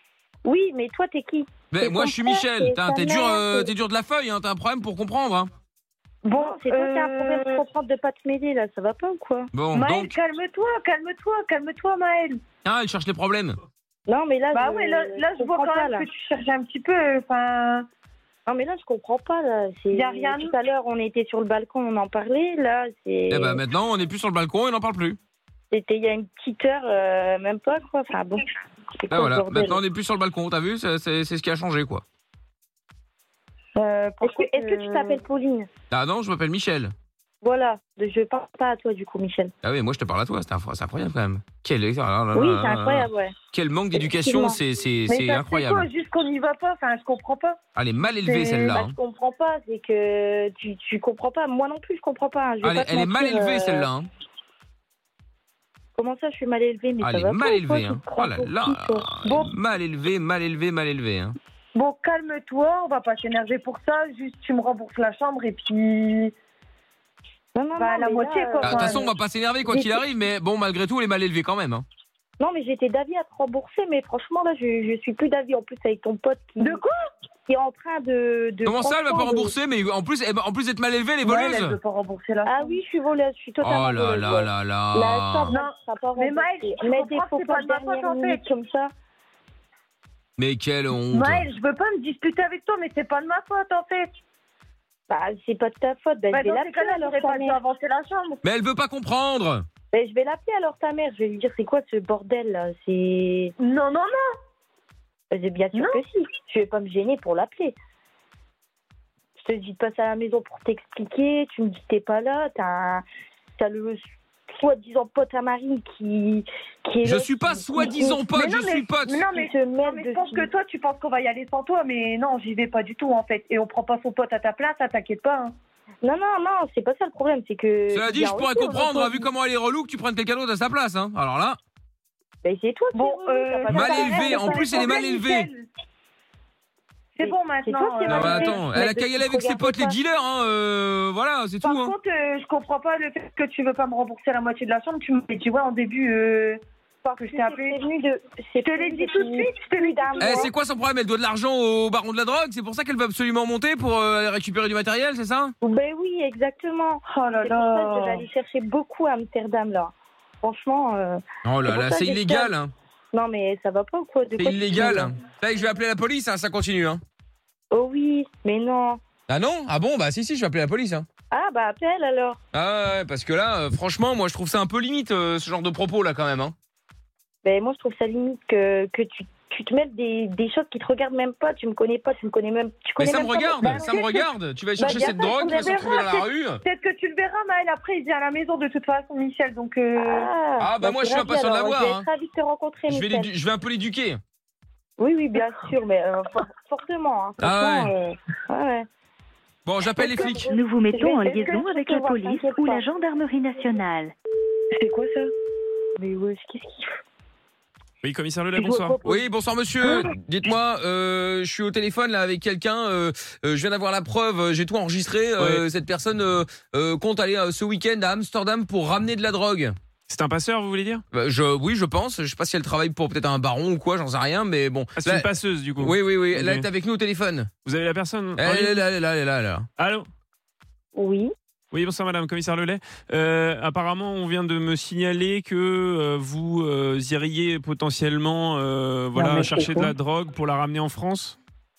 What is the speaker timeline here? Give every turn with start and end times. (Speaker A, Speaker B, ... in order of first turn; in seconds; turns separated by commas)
Speaker A: 0.4-3.7, Speaker B: 1.7-5.5, Speaker C: 6.2-7.6, Speaker A: 6.3-9.5, Speaker B: 9.5-10.1, Speaker C: 9.7-12.4, Speaker B: 12.6-13.6, Speaker A: 14.1-16.1, Speaker C: 14.5-17.9, Speaker A: 18.4-23.6, Speaker C: 19.9-20.5, Speaker B: 23.3-25.2, Speaker A: 25.7-28.4, Speaker A: 29.0-29.8, Speaker B: 29.1-32.0, Speaker C: 33.8-35.2, Speaker A: 34.2-35.7, Speaker B: 35.9-36.9, Speaker A: 37.4-39.5, Speaker B: 39.6-45.9, Speaker A: 42.3-43.3, Speaker A: 43.9-44.6, Speaker C: 45.1-47.6, Speaker B: 47.8-48.9, Speaker C: 48.2-48.7, Speaker A: 48.6-53.9, Speaker B: 52.6-54.1, Speaker A: 56.0-59.1, Speaker B: 57.0-61.4, Speaker C: 59.2-59.5, Speaker C: 61.7-66.3, Speaker A: 67.5-69.1, Speaker C: 67.8-69.0, Speaker B: 68.6-71.8, Speaker A: 69.7-70.0, Speaker A: 72.4-76.8, Speaker C: 76.6-76.9, Speaker A: 77.5-79.5, Speaker B: 78.6-81.8, Speaker C: 81.2-82.8, Speaker A: 82.5-88.9, Speaker B: 83.6-85.5, Speaker C: 85.5-88.4, Speaker B: 90.4-91.5, Speaker C: 91.1-94.1, Speaker A: 95.1-97.6, Speaker C: 96.3-98.4, Speaker B: 98.4-99.6, Speaker A: 99.9-103.5, Speaker C: 103.6-104.2, Speaker A: 105.3-107.8, Speaker C: 105.7-106.0, Speaker A: 109.3-113.0, Speaker A: 113.6-118.3, Speaker B: 117.0-119.2, Speaker C: 118.3-125.5, Speaker A: 119.3-120.5, Speaker A: 126.0-129.3, Speaker B: 127.9-131.6, Speaker A: 132.4-135.1, Speaker C: 132.9-135.7, Speaker B: 133.7-135.5, Speaker C: 137.2-138.6, Speaker A: 137.2-139.9, Speaker B: 138.1-141.9, Speaker C: 141.6-146.6, Speaker A: 147.0-150.5, Speaker C: 147.2-147.8, Speaker C: 148.6-150.5, Speaker B: 150.2-155.5, Speaker A: 155.6-162.5, Speaker C: 157.1-158.2, Speaker B: 161.4-162.7, Speaker A: 163.1-165.1, Speaker B: 164.3-167.0, Speaker A: 167.7-169.0, Speaker B: 169.3-171.1, Speaker A: 171.3-172.4, Speaker B: 172.5-176.5, Speaker A: 177.4-184.0, Speaker B: 183.0-186.6, Speaker C: 183.7-184.3, Speaker A: 184.8-186.1, Speaker C: 184.8-190.3, Speaker A: 189.9-193.3, Speaker B: 190.6-192.1, Speaker B: 192.9-194.2, Speaker A: 195.0-198.8, Speaker B: 197.4-197.9, Speaker B: 199.6-200.4, Speaker A: 200.0-203.7, Speaker D: 200.0-204.1, Speaker C: 201.3-201.8, Speaker C: 204.7-205.3, Speaker A: 206.0-207.0, Speaker E: 208.0-209.0, Speaker A: 208.6-209.2, Speaker B: 209.0-219.8, Speaker E: 215.4-215.6, Speaker E: 220.1-221.0, Speaker B: 221.1-227.5, Speaker E: 224.9-226.7, Speaker E: 227.6-228.9, Speaker B: 228.4-229.7, Speaker E: 229.8-230.1, Speaker A: 230.9-231.3, Speaker E: 231.7-241.4, Speaker A: 239.1-239.9